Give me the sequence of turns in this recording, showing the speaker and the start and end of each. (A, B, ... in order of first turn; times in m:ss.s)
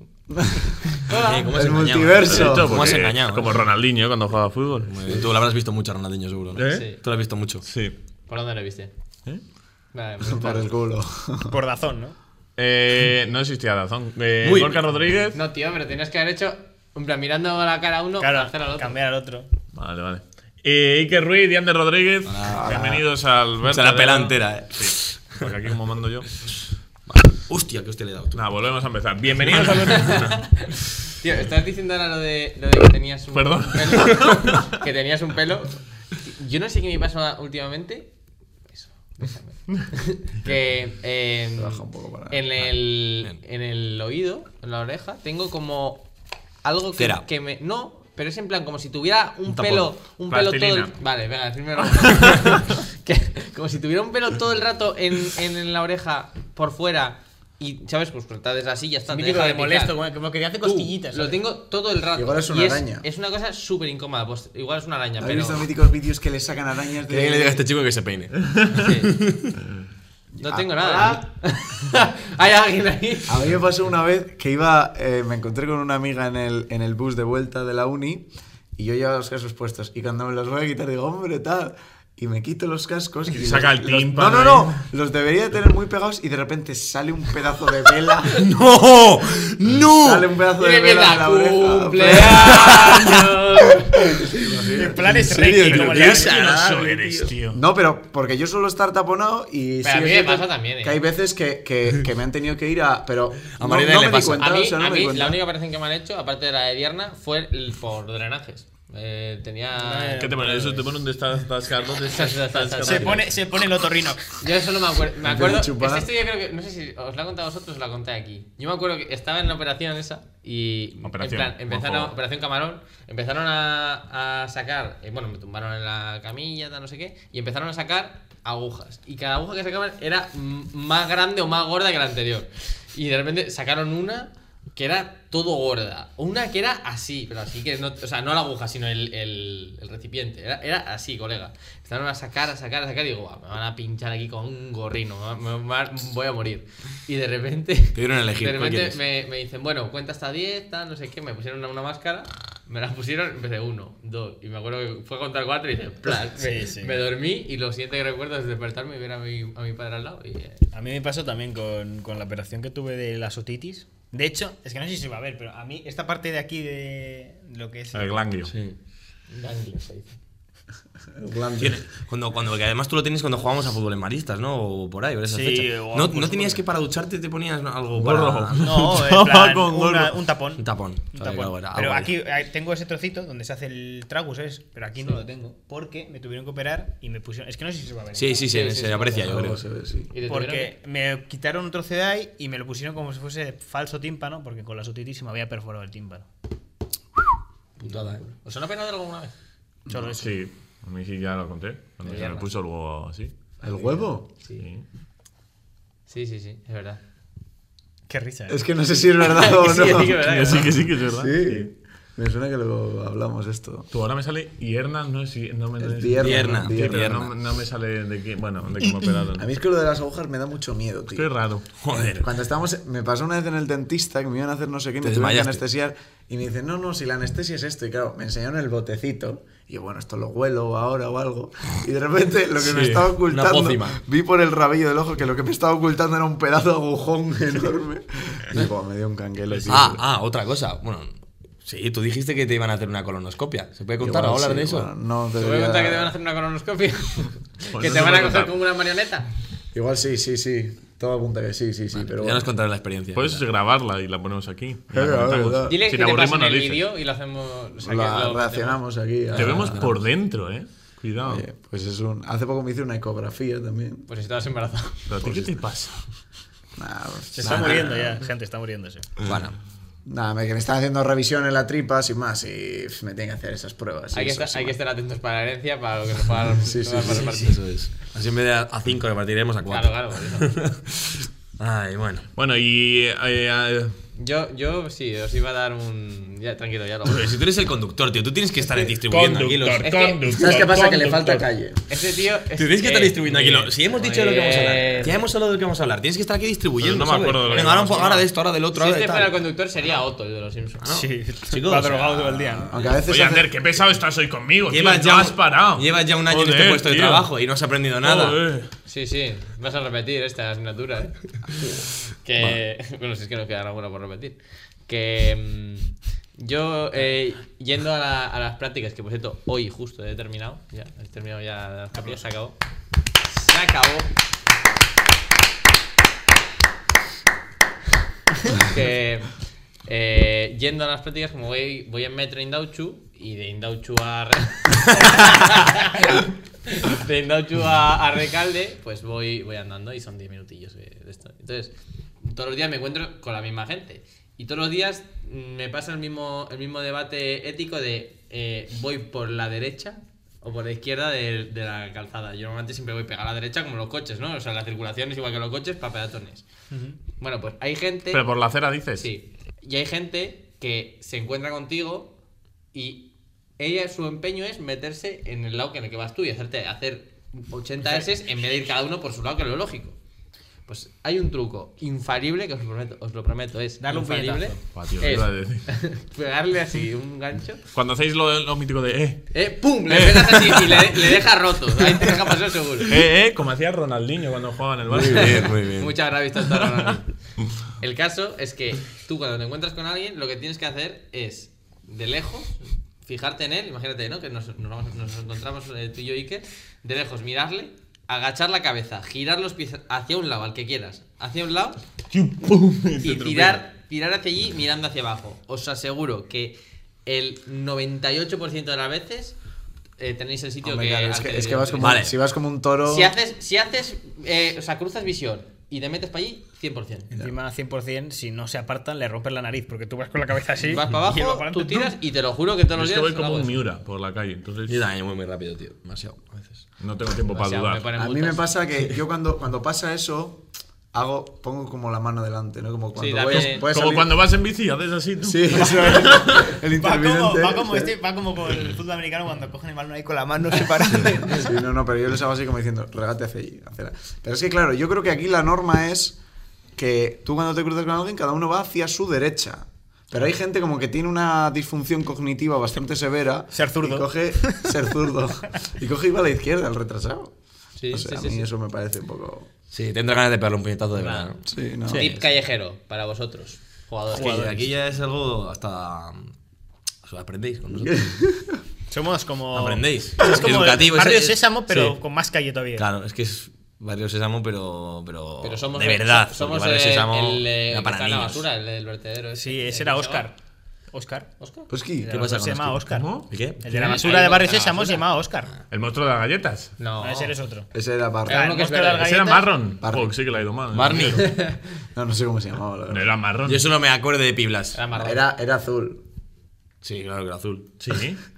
0:00.3-0:03.0 A
0:01.0-0:01.5 B
0:01.1-0:03.5 C
0:02.2-0:05.2 D
0:04.9-0:07.6 C
0:06.6-0:06.9 D
0:06.7-0:07.0 B
0:07.7-0:07.9 D
0:08.3-0:08.9 B
0:09.9-0:10.7 B
0:10.2-0:11.6 A
0:11.5-0:12.2 E
0:12.6-0:15.4 D
0:14.4-0:14.8 C
0:15.3-0:19.0 B
0:18.2-0:19.5 E
0:19.7-0:26.3 D
0:22.2-0:23.0 C
0:22.7-0:23.0 A
0:23.6-0:25.5 C
0:27.1-0:28.4 C
0:28.3-0:30.5 D
0:29.9-0:38.1 B
0:33.3-0:34.7 D
0:38.7-0:46.1 B
0:41.6-0:42.5 A
0:46.6-1:00.0 B
0:47.0-0:47.2 C
0:49.5-0:51.0 D
0:59.1-1:01.4 E
1:00.6-1:05.6 B
1:02.1-1:03.0 A
1:05.2-1:07.6 A
1:07.1-1:08.4 C
1:08.5-1:08.9 D
1:08.7-1:09.1 B
1:09.1-1:09.5 C
1:10.3-1:11.2 A
1:10.4-1:13.5 B
1:10.8-1:11.2 E
1:13.3-1:28.5 A
1:23.3-1:24.8 D
1:28.3-1:30.3 C
1:29.9-1:32.8 A
1:30.6-1:33.9 B
1:32.4-1:33.4 C
1:34.3-1:35.6 A
1:34.6-1:37.1 E
1:35.2-1:37.4 C
1:35.4-1:37.6 D
1:37.5-1:45.4 A
1:39.8-1:41.0 B
1:43.5-1:44.4 C
1:44.4-1:50.3 B
1:49.8-1:50.9 E
1:50.2-1:53.3 D
1:52.1-1:53.2 B
1:52.8-1:54.4 E
1:54.4-2:40.6 B
1:55.2-1:56.1 A
2:01.0-2:02.1 D
2:27.9-2:29.0 C
2:36.4-2:37.0 E
2:40.7-2:48.3 E
2:47.9-2:48.5 D
2:48.5-2:48.8 C
2:49.3-2:50.2 B
2:51.2-2:51.8 A
2:51.6-2:58.9 C
2:55.3-2:56.6 E
2:58.0-3:00.2 D
2:58.6-3:08.7 E
3:00.6-3:02.1 C
3:08.1-3:09.6 C
3:08.5-3:09.5 B
3:09.2-3:10.1 A
3:10.1-3:10.7 B
3:10.2-3:16.3 E
3:17.8-3:18.2 C
3:17.8-3:19.3 B
3:19.9-3:20.1 A
3:19.9-3:20.3 E
3:20.1-3:23.3 D
3:22.0-3:22.5 B
3:23.6-3:24.3 A
3:23.8-3:24.6 B
3:24.6-3:24.8 D
3:26.1-3:27.0 B
3:28.1-3:28.6 E
3:28.5-3:30.2 A
3:29.2-3:30.8 B
3:30.1-3:31.7 D
3:31.1-3:33.9 A
3:33.9-3:39.4 D
3:35.8-3:37.2 A
3:36.2-3:37.3 C
3:39.3-3:41.3 A
3:41.1-3:41.6 D
3:41.8-3:42.3 C
3:41.9-4:00.0 A
3:45.0-3:45.6 C
3:52.6-3:54.0 C
3:59.7-4:01.1 C
4:01.6-4:04.9 C
4:04.0-4:06.1 A
4:05.4-4:09.3 B
4:07.7-4:08.5 D
4:09.7-4:12.5 A
4:12.0-4:13.4 C
4:13.1-4:16.9 D
4:14.9-4:15.8 A
4:15.6-4:18.8 B
4:17.8-4:19.9 A
4:19.3-4:19.9 C
4:19.4-4:21.4 D
4:21.2-4:24.1 A
4:24.1-4:25.1 B
4:25.1-4:26.0 D
4:26.8-4:28.1 A
4:27.4-4:29.1 E
4:27.4-4:27.9 B
4:29.2-4:29.5 C
4:30.0-4:34.8 A
4:34.1-4:37.6 B
4:36.6-4:37.3 A
4:37.1-4:42.3 C
4:39.7-4:40.5 B
4:42.4-4:43.9 D
4:44.2-4:47.3 B
4:47.0-4:49.9 C
4:49.0-4:51.4 D
4:49.8-4:50.2 B
4:50.3-4:51.8 A
4:51.9-4:55.2 B
4:52.6-4:59.4 C
4:56.8-4:58.2 D
4:57.5-4:57.9 B
4:58.7-5:00.8 B
5:00.8-5:02.7 C
5:00.9-5:02.8 E
5:02.7-5:03.5 A
5:03.1-5:07.3 D
5:04.7-5:08.4 C
5:08.0-5:08.7 D
5:08.8-5:11.2 B
5:12.2-5:22.6 B
5:23.2-5:24.1 B
5:28.5-5:29.3 B
5:29.8-5:56.4 B
5:56.7-5:57.0 E
5:57.2-5:58.2 B
5:58.1-5:59.1 D
5:59.0-6:02.1 B
6:02.7-6:03.0 B
6:03.6-6:10.0 B
6:10.7-6:17.6 B
6:13.8-6:14.6 E
6:14.7-6:15.7 D
6:17.7-6:19.2 D
6:19.3-6:23.0 B
6:19.9-6:21.2 D
6:22.8-6:25.5 D
6:24.9-6:25.9 C
6:25.0-6:27.1 B
6:27.8-6:41.8 B
6:42.1-6:43.7 D
6:43.0-6:49.4 B
6:50.0-6:52.0 B
6:50.6-6:53.1 A
6:51.8-6:52.2 C
6:52.8-6:57.1 B
6:57.1-7:01.9 E
7:00.6-7:03.6 B
7:02.7-7:04.8 D
7:04.7-7:06.6 C
7:06.8-7:07.9 D
7:07.3-7:08.5 B
7:08.0-7:14.1 A
7:13.0-7:13.7 B
7:13.3-7:16.5 D
7:15.2-7:18.0 A
7:16.8-7:21.6 E
7:21.0-7:26.2 A
7:26.7-7:37.3 A
7:33.5-7:34.6 E
7:37.8-7:38.5 B
7:37.9-7:39.5 A
7:39.7-7:41.4 C
7:41.4-7:42.0 A
7:41.9-7:44.6 B
7:42.0-7:42.3 C
7:44.1-7:46.3 C
7:44.1-7:44.5 E
7:47.0-7:48.1 C
7:47.8-7:48.6 A
7:48.9-7:52.9 E
7:49.5-7:52.0 C
7:52.8-7:58.4 C
7:55.4-8:00.3 B
7:59.4-8:00.4 E
8:00.9-8:01.3 E
8:01.4-8:01.7 B
8:01.7-8:02.1 A
8:02.0-8:05.6 E
8:02.1-8:03.9 C
8:02.8-8:03.3 D
8:03.7-8:05.0 B
8:05.7-8:06.7 D
8:06.8-8:07.3 B
8:07.0-8:07.7 E
8:07.7-8:08.5 A
8:08.2-8:09.2 B
8:08.3-8:09.6 E
8:09.0-8:11.3 D
8:09.8-8:10.1 A
8:10.7-8:11.3 C
8:11.0-8:11.6 B
8:11.9-8:13.1 A
8:12.9-8:13.7 D
8:13.4-8:14.8 C
8:14.7-8:15.2 B
8:14.9-8:16.0 A
8:16.8-8:17.8 C
8:17.8-8:18.2 D